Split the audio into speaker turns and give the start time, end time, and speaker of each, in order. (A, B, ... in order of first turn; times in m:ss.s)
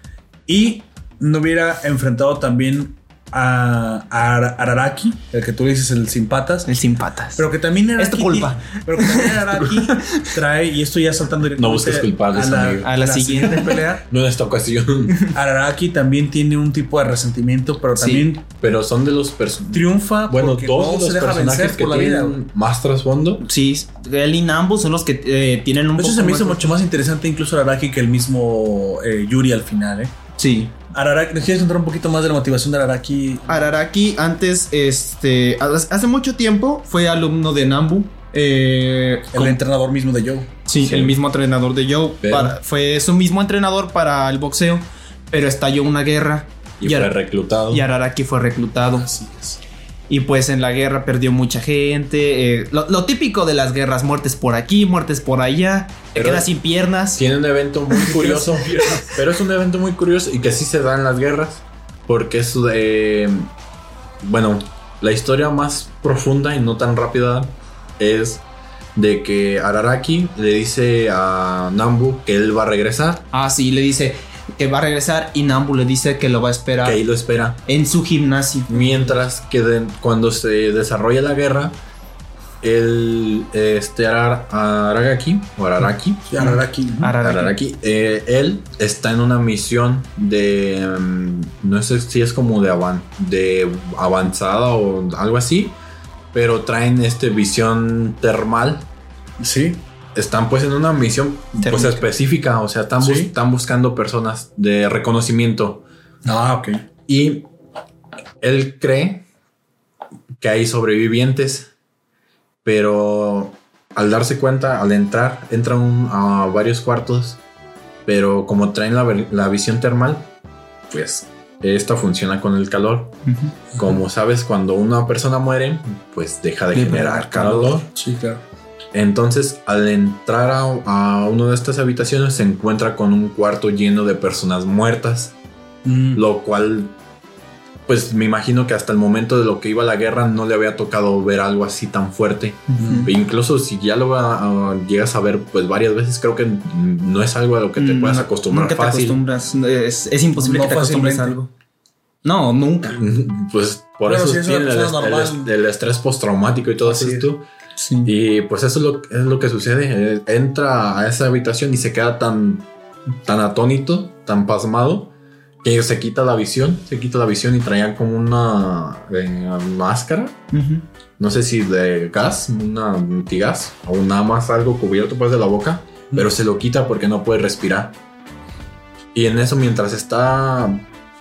0:00.5-0:06.7 A
0:06.6-0:07.4 B
0:07.4-0:14.0 A
0:08.0-0:10.2 B
0:11.6-0:15.2 C
0:12.8-0:13.7 B
0:15.3-0:18.4 A
0:18.0-0:18.3 B
0:18.6-0:23.4 C
0:19.7-0:22.4 A
0:23.4-0:26.7 B
0:26.0-0:30.1 A
0:30.4-0:30.7 B
0:30.9-0:33.7 A
0:33.5-0:39.6 B
0:39.3-0:40.5 A
0:40.6-0:47.1 B
0:40.8-0:41.2 C
0:42.2-0:42.6 C
0:46.8-0:47.8 C
0:47.7-0:49.1 B
0:49.0-0:49.6 A
0:50.1-0:57.2 B
0:56.1-0:56.5 C
0:57.1-1:03.5 C
0:58.0-0:59.2 A
1:04.2-1:08.4 C
1:09.0-1:13.2 C
1:13.3-1:17.0 B
1:16.8-1:17.6 C
1:17.6-1:19.2 B
1:18.7-1:21.8 C
1:22.6-1:26.4 C
1:26.3-1:27.1 A
1:26.4-1:27.6 B
1:27.2-1:35.8 C
1:36.3-1:38.9 C
1:39.4-1:39.8 A
1:40.1-1:45.8 C
1:41.6-1:42.0 B
1:43.0-1:43.3 A
1:46.2-1:46.8 A
1:47.1-1:47.5 C
1:48.4-1:49.2 C
1:50.4-1:51.7 C
1:52.6-1:57.4 C
1:58.0-2:00.3 C
2:00.9-2:03.2 C
2:03.2-2:03.5 B
2:03.7-2:07.9 C
2:06.7-2:07.8 B
2:07.9-2:08.4 A
2:08.9-2:15.3 C
2:15.8-2:16.2 A
2:16.1-2:16.9 C
2:17.9-2:29.2 C
2:22.7-2:23.1 B
2:22.8-2:23.1 A
2:27.8-2:31.5 B
2:30.4-2:31.4 A
2:32.2-2:33.0 B
2:32.8-2:37.4 C
2:34.0-2:35.5 A
2:36.8-2:37.3 A
2:37.8-2:38.1 B
2:38.0-2:42.7 C
2:43.2-2:50.4 C
2:50.5-2:50.8 B
2:51.2-2:58.0 C
2:59.1-3:00.9 C